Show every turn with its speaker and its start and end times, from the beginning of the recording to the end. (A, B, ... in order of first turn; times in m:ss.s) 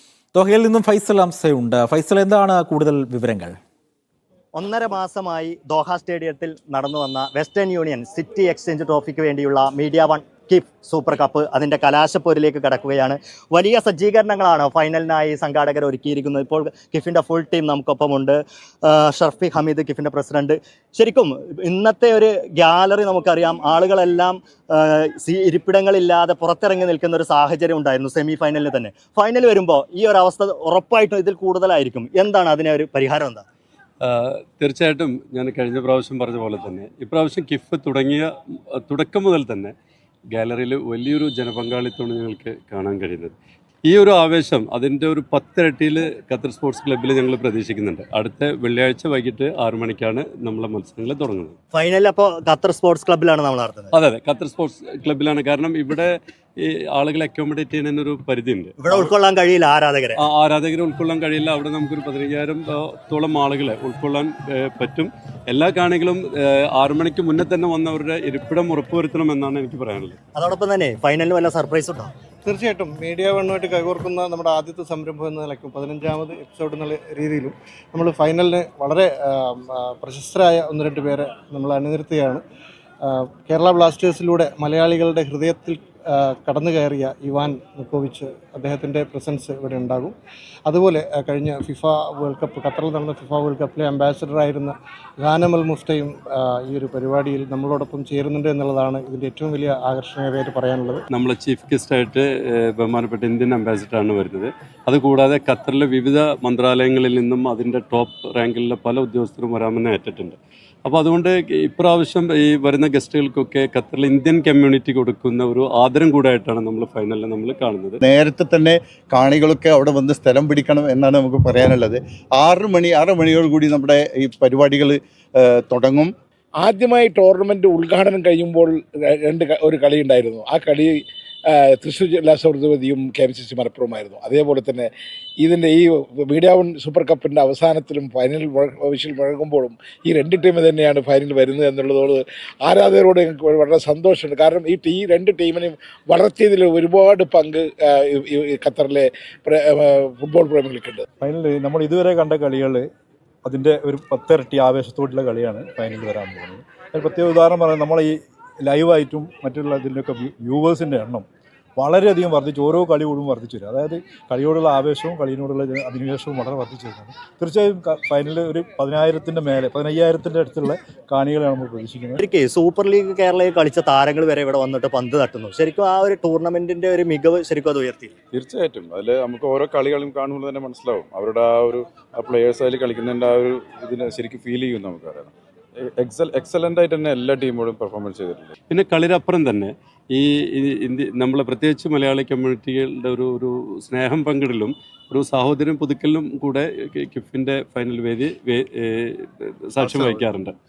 0:00.3-0:03.6 A
0:04.6-0:33.4 B
0:34.0-0:39.7 C
0:40.3-0:43.3 C
0:43.9-0:51.6 C
0:51.7-0:53.9 B
0:53.9-0:59.1 C
0:58.8-1:00.2 B
1:00.2-1:10.2 C
1:10.4-1:12.1 B
1:12.4-1:22.4 D
1:23.0-1:30.2 D
1:30.7-1:41.0 D
1:41.1-1:58.0 C
1:58.0-2:06.1 E
2:06.6-2:14.9 F
2:15.4-2:31.0 F
2:31.2-2:32.9 G
2:33.4-2:41.3 G
2:41.8-2:52.2 G
2:52.2-2:58.1 B
2:58.3-3:08.6 H
3:08.7-3:20.5 C
3:19.8-3:20.2 B